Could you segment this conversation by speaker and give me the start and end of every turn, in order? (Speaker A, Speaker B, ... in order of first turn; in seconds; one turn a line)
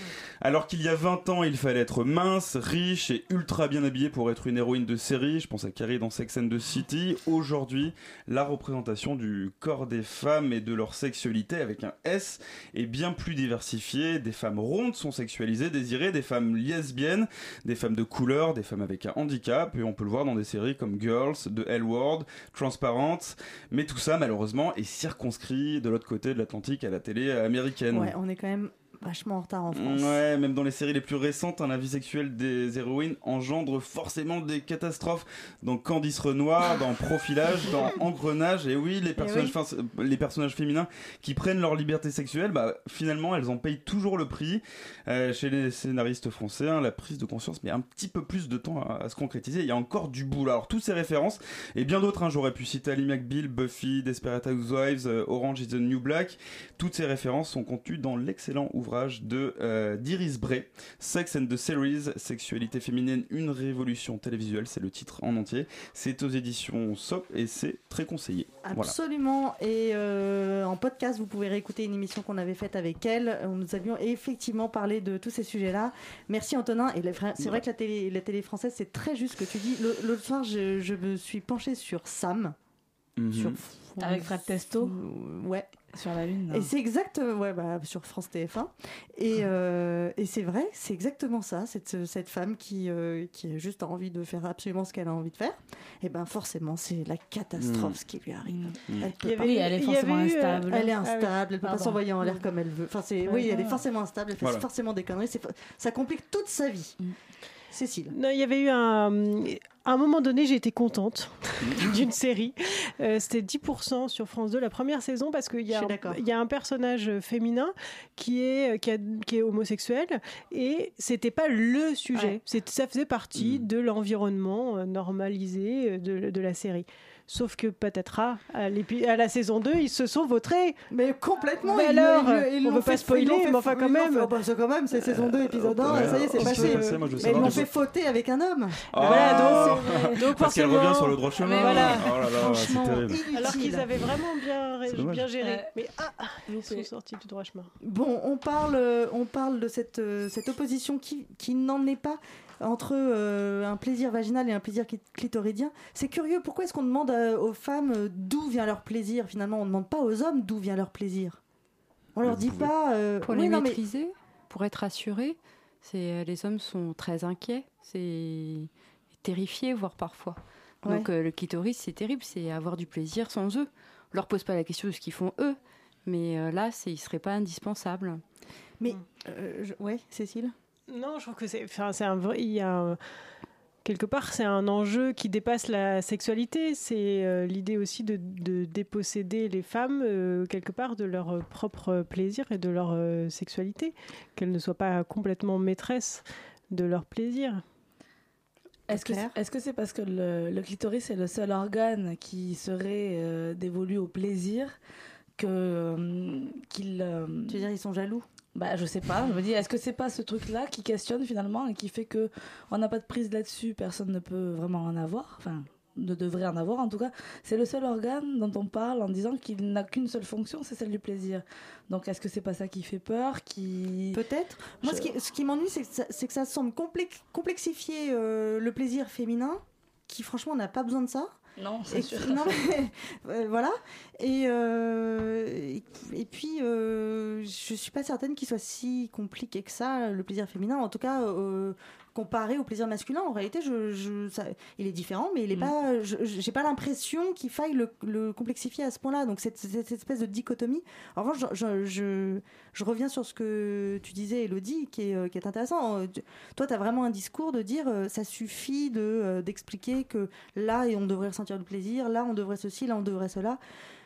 Speaker A: 0.4-28.1
Speaker B: 27.9-30.2
Speaker A: 29.7-68.9
Speaker B: 39.2-39.5
Speaker B: 68.6-82.6
Speaker A: 83.2-83.6
Speaker B: 83.3-85.8
Speaker C: 84.0-85.0
Speaker C: 85.9-86.7
Speaker B: 86.5-99.7
Speaker A: 97.6-98.0
Speaker C: 98.5-100.9
Speaker D: 99.4-101.7
Speaker B: 100.7-107.0
Speaker C: 101.6-102.3
Speaker C: 103.4-103.8
Speaker B: 107.7-108.2
Speaker D: 108.1-130.8
Speaker A: 111.6-111.9
Speaker B: 115.7-116.2
Speaker B: 122.1-122.4
Speaker A: 123.3-123.7
Speaker B: 130.9-139.8
Speaker D: 131.6-134.3
Speaker A: 135.1-137.7
Speaker D: 136.0-137.6
Speaker C: 137.3-137.6
Speaker A: 138.9-143.2
Speaker D: 139.0-142.1
Speaker C: 139.3-140.2
Speaker C: 141.4-142.1
Speaker B: 142.3-143.9
Speaker D: 143.3-147.7
Speaker A: 144.9-145.3
Speaker C: 145.4-145.7
Speaker C: 146.5-146.9
Speaker B: 147.8-161.4
Speaker B: 162.2-163.8
Speaker A: 162.2-162.7
Speaker E: 163.2-168.7
Speaker E: 169.2-178.2
Speaker B: 178.8-180.5
Speaker D: 180.9-183.0
Speaker D: 183.8-197.6
Speaker C: 198.9-204.8
Speaker B: 198.9-199.3
Speaker C: 205.4-207.6
Speaker B: 207.5-208.3
Speaker C: 208.5-224.2
Speaker B: 224.1-231.4
Speaker C: 224.8-225.1
Speaker C: 231.6-232.5
Speaker B: 231.9-263.6